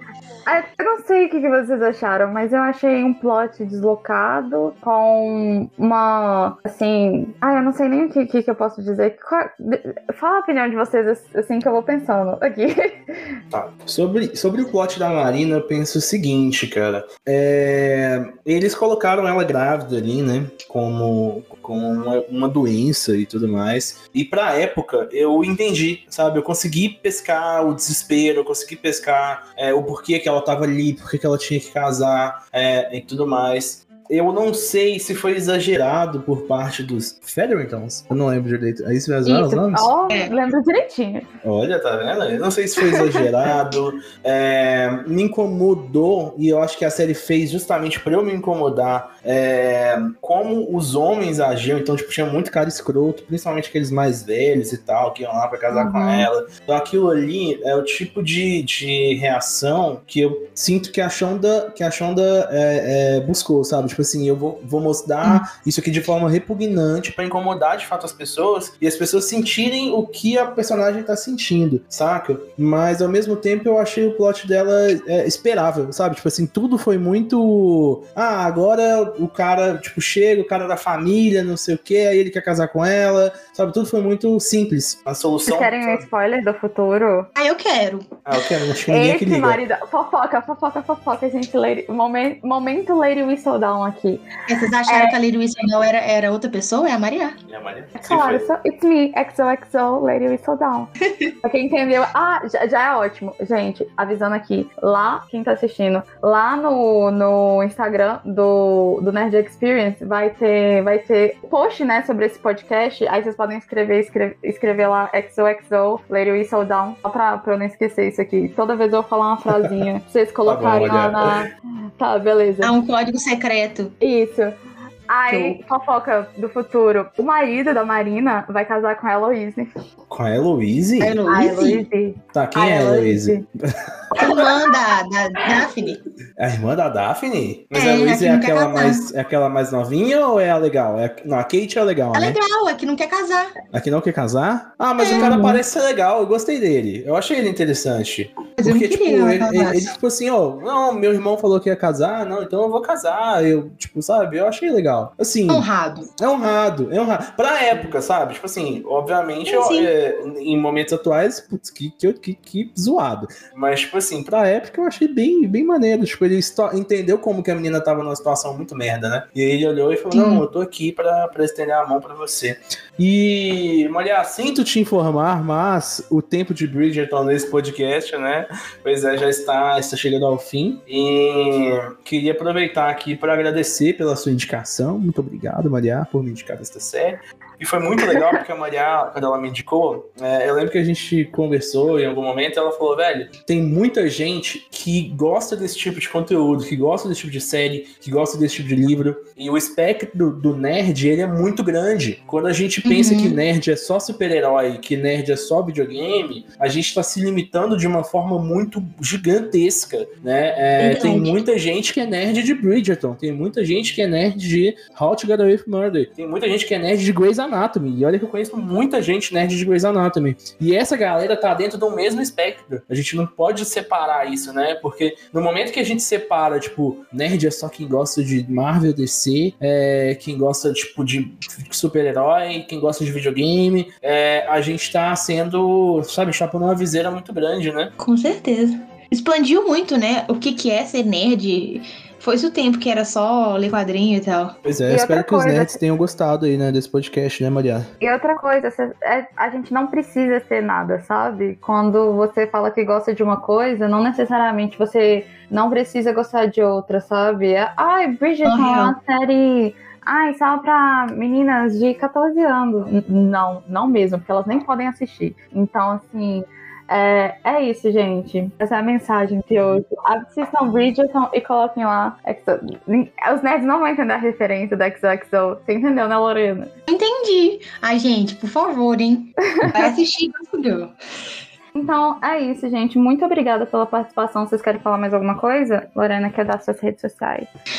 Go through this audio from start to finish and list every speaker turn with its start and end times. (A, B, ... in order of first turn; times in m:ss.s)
0:00.4-0:13.4 A
0:13.5-0:39.9 B
0:39.2-0:41.3 A
0:41.4-1:26.0 B
0:55.7-0:56.3 A
1:25.4-1:27.3 A
1:27.4-1:28.2 C
1:28.2-1:29.6 B
1:28.9-1:34.2 A
1:34.5-1:37.4 C
1:34.9-1:35.2 A
1:37.5-1:38.5 B
1:38.0-1:40.9 A
1:41.4-2:02.7 A
2:00.4-2:01.4 B
2:02.6-2:03.9 C
2:04.0-2:04.5 A
2:05.1-2:09.7 A
2:05.3-2:05.6 C
2:10.1-2:11.2 B
2:11.0-2:11.8 C
2:11.3-2:13.4 A
2:12.3-2:13.4 B
2:14.1-2:14.5 A
2:14.2-2:16.0 C
2:16.4-2:22.4 B
2:17.7-2:19.1 C
2:22.1-2:23.6 C
2:23.7-2:35.6 B
2:25.0-2:25.6 C
2:28.6-2:29.9 C
2:35.5-2:36.1 C
2:36.2-3:57.9 B
2:39.5-2:39.9 C
2:50.1-2:50.4 C
3:22.8-3:23.4 C
3:30.8-3:31.4 C
3:58.0-4:04.6 C
4:04.6-4:07.9 B
4:04.9-4:05.8 A
4:08.0-4:36.7 A
4:18.4-4:19.0 C
4:36.9-4:40.9 C
4:39.5-4:39.9 A
4:41.7-4:47.5 A